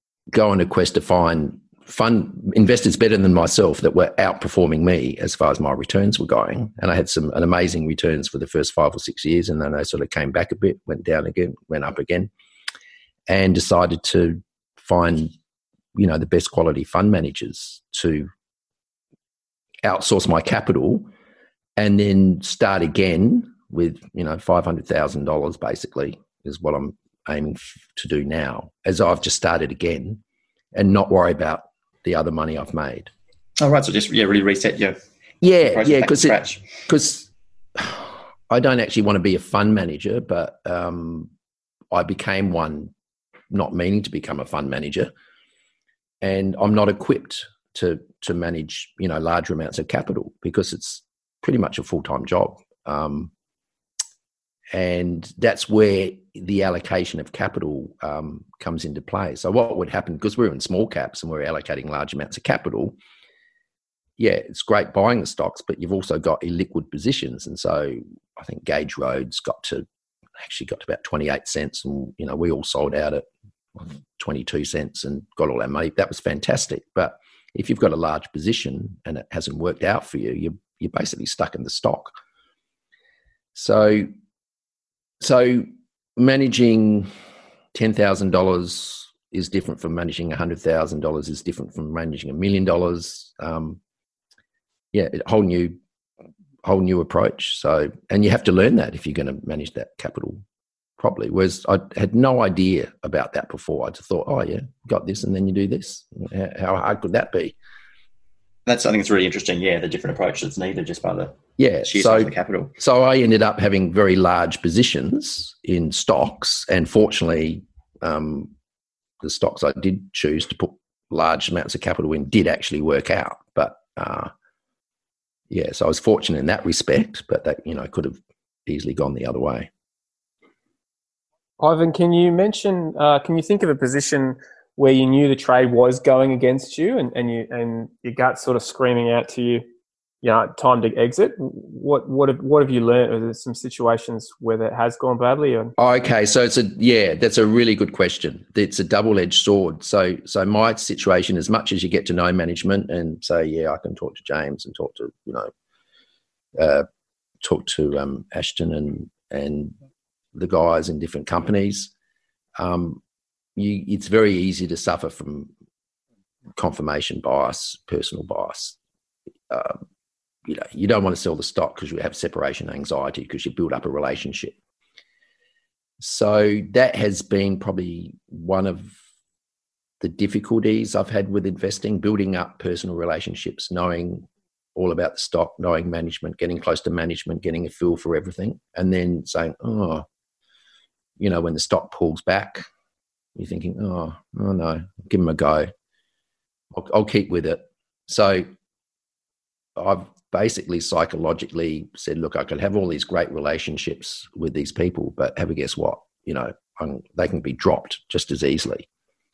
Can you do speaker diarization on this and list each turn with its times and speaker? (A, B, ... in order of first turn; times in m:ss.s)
0:00.3-0:12.3 A
0:13.3-0:15.3 A
0:16.0-0:18.3 A
0:19.8-0:21.1 A
0:21.8-0:30.2 A
0:30.7-0:33.1 A
0:33.6-0:35.0 B
0:35.4-0:41.3 A
0:35.7-0:36.7 B
0:41.9-0:42.9 A
0:43.5-0:45.1 A
0:46.2-0:53.3 A
0:54.7-1:03.0 A
1:04.2-1:09.8 A
1:10.4-1:22.1 A
1:23.5-1:24.1 A
1:25.2-1:27.1 A
1:27.7-1:33.8 A
1:34.9-1:35.8 A
1:36.6-1:40.4 A
1:41.0-1:47.6 A
1:48.7-1:52.7 B
1:51.6-1:58.5 A
1:59.2-2:04.3 A
2:05.5-2:09.7 A
2:11.6-2:19.7 C
2:20.2-2:25.7 C
2:25.8-2:35.5 A
2:36.6-2:36.9 A
2:37.4-2:39.8 A
2:40.4-2:41.9 A
2:42.6-2:43.0 A
2:43.6-2:45.5 A
2:46.6-2:48.8 A
2:49.5-2:49.8 A
2:50.4-2:54.6 A
2:56.0-2:59.0 A
3:00.0-3:10.0 A
3:11.2-3:12.7 A
3:13.4-3:15.7 A
3:16.7-3:18.5 A
3:19.8-3:28.9 A